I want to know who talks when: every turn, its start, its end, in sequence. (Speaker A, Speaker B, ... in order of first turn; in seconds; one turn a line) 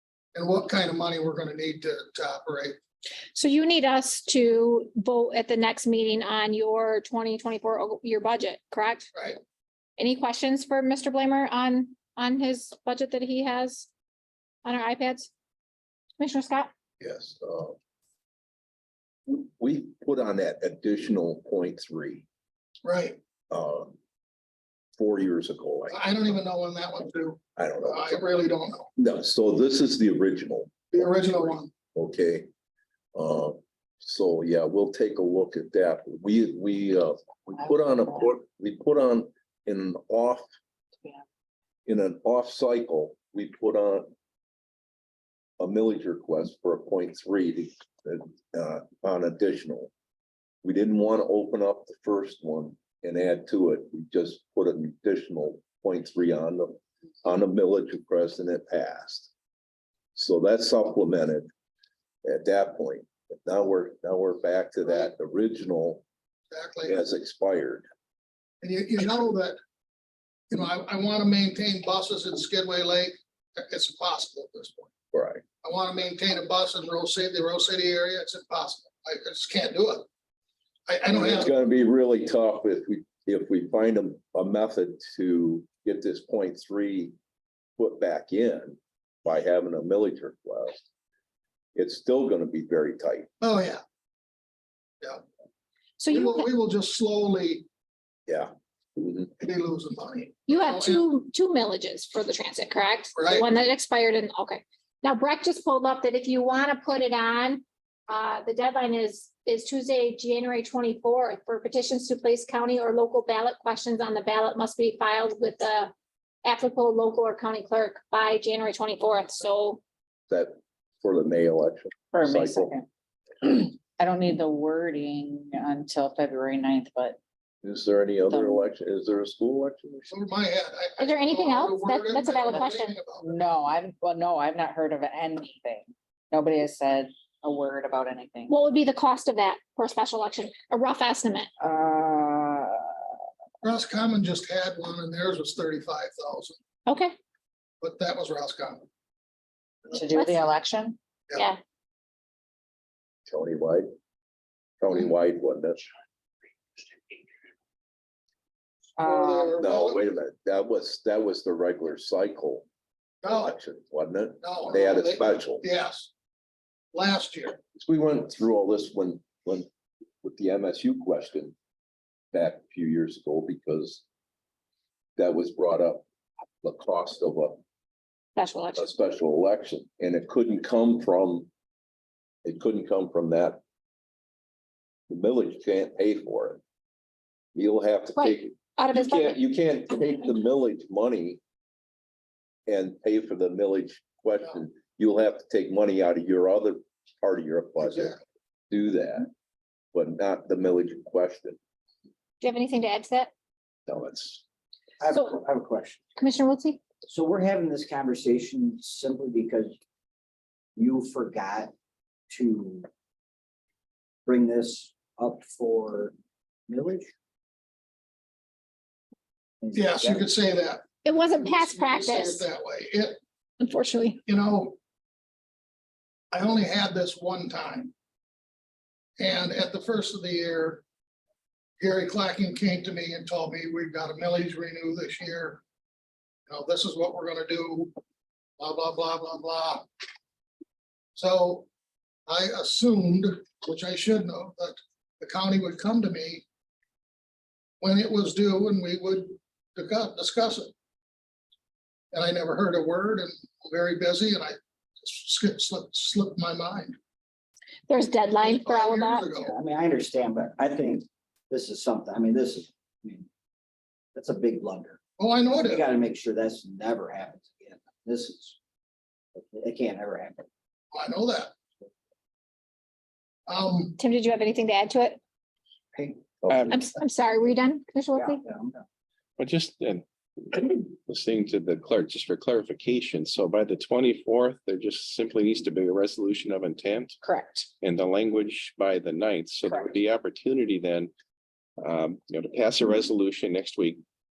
Speaker A: 0.3-2.8
Speaker B: 3.3-9.1
Speaker A: 9.1-9.4
Speaker B: 10.0-13.9
Speaker B: 14.6-15.3
Speaker B: 16.2-16.7
Speaker C: 17.0-17.8
Speaker C: 19.3-22.2
Speaker A: 22.8-23.2
Speaker C: 23.5-24.0
Speaker C: 25.0-26.0
Speaker A: 25.9-28.9
Speaker C: 27.6-28.3
Speaker C: 29.0-32.5
Speaker A: 30.9-31.7
Speaker C: 33.1-40.5
Speaker C: 41.9-44.1
Speaker C: 45.6-49.9
Speaker C: 50.6-59.3
Speaker C: 60.1-61.5
Speaker C: 62.2-66.0
Speaker A: 66.5-67.0
Speaker C: 66.8-67.9
Speaker A: 68.6-69.6
Speaker A: 70.5-74.9
Speaker C: 75.1-75.4
Speaker A: 75.6-80.1
Speaker A: 80.9-81.5
Speaker C: 81.1-87.1
Speaker C: 87.8-90.8
Speaker C: 91.7-93.3
Speaker A: 93.4-93.8
Speaker B: 96.0-96.5
Speaker A: 96.1-97.7
Speaker C: 98.3-99.3
Speaker A: 99.4-101.0
Speaker B: 100.5-115.9
Speaker A: 103.1-103.5
Speaker B: 116.4-119.8
Speaker C: 120.3-122.7
Speaker D: 122.1-122.8
Speaker D: 123.4-127.2
Speaker C: 127.6-130.2
Speaker D: 128.3-128.6
Speaker A: 130.1-133.3
Speaker B: 131.0-132.9
Speaker D: 133.2-138.5
Speaker B: 138.5-141.5
Speaker D: 141.6-143.1
Speaker A: 143.6-146.6
Speaker B: 146.8-147.2
Speaker A: 147.8-148.9
Speaker D: 149.9-151.0
Speaker B: 150.1-150.3
Speaker C: 153.3-153.9
Speaker C: 154.8-155.8
Speaker D: 159.0-159.6
Speaker A: 159.0-160.0
Speaker C: 159.6-162.7
Speaker A: 163.2-163.6
Speaker C: 163.3-165.6
Speaker A: 164.4-166.1
Speaker A: 166.9-167.6
Speaker C: 167.7-169.7
Speaker C: 170.2-171.5
Speaker C: 172.3-174.0
Speaker C: 175.2-176.0
Speaker C: 176.6-177.6
Speaker B: 178.3-178.9
Speaker C: 178.8-181.5
Speaker C: 182.4-183.6
Speaker C: 185.1-186.6
Speaker C: 187.5-191.4
Speaker B: 188.2-189.4
Speaker C: 192.7-198.2
Speaker A: 197.8-198.1
Speaker C: 198.7-199.3
Speaker C: 199.9-201.6
Speaker B: 202.4-203.3
Speaker C: 203.9-204.4
Speaker E: 205.0-206.0
Speaker B: 206.2-206.8
Speaker E: 207.1-209.8
Speaker E: 210.8-211.7
Speaker E: 212.3-212.9
Speaker E: 214.2-216.1
Speaker E: 216.7-217.1
Speaker E: 219.6-220.3
Speaker A: 219.7-223.2
Speaker B: 221.0-222.4
Speaker B: 223.6-224.2
Speaker A: 224.2-224.8
Speaker A: 226.3-227.9
Speaker A: 229.2-230.8
Speaker A: 231.8-235.6
Speaker A: 236.5-238.0
Speaker A: 238.6-239.9
Speaker A: 241.1-241.7
Speaker A: 242.2-246.4
Speaker A: 247.8-250.7
Speaker A: 252.1-257.0
Speaker B: 257.9-259.2
Speaker A: 258.4-259.5
Speaker E: 259.4-263.3
Speaker E: 264.1-268.6
Speaker A: 265.2-265.9
Speaker E: 269.3-270.4
Speaker A: 270.9-271.5
Speaker A: 273.5-274.0
Speaker B: 274.0-275.2
Speaker E: 275.9-276.2
Speaker C: 276.4-276.7
Speaker B: 276.7-278.4
Speaker E: 278.2-278.8
Speaker F: 279.4-287.2
Speaker B: 287.2-287.6
Speaker F: 287.8-291.1
Speaker F: 291.8-294.0